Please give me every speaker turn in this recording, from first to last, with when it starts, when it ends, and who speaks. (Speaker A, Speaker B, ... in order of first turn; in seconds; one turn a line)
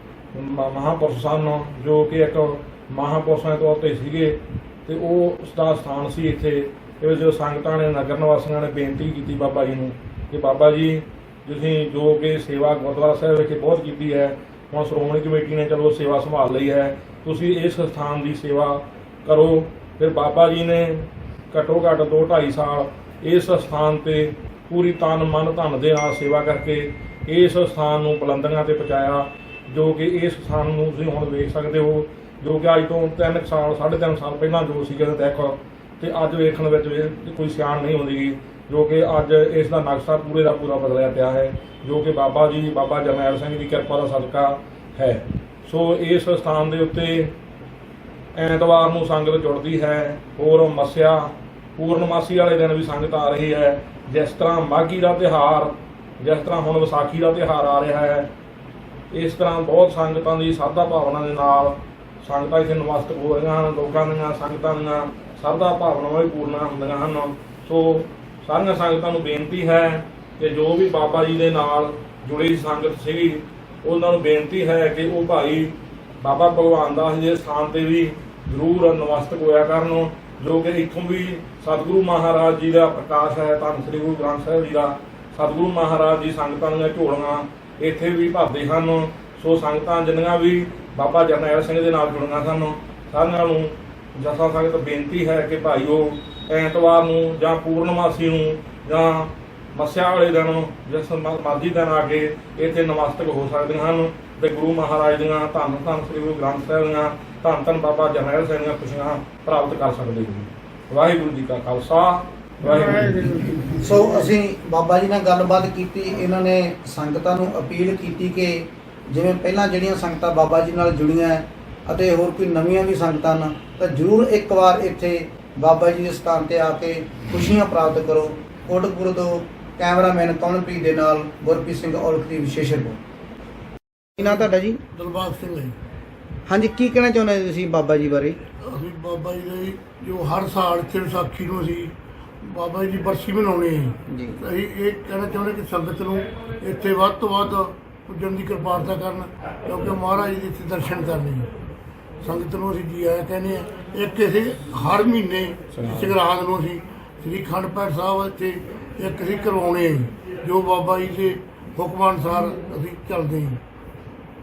Speaker A: 0.3-47.3
Speaker A: 48.3-58.3
Speaker A: 59.1-113.7
Speaker B: 113.8-133.0
Speaker B: 134.2-134.8
Speaker C: 134.9-135.7
Speaker B: 136.5-138.4
Speaker C: 138.6-151.5
Speaker B: 144.1-144.4
Speaker C: 152.2-163.6
Speaker A: 155.8-156.2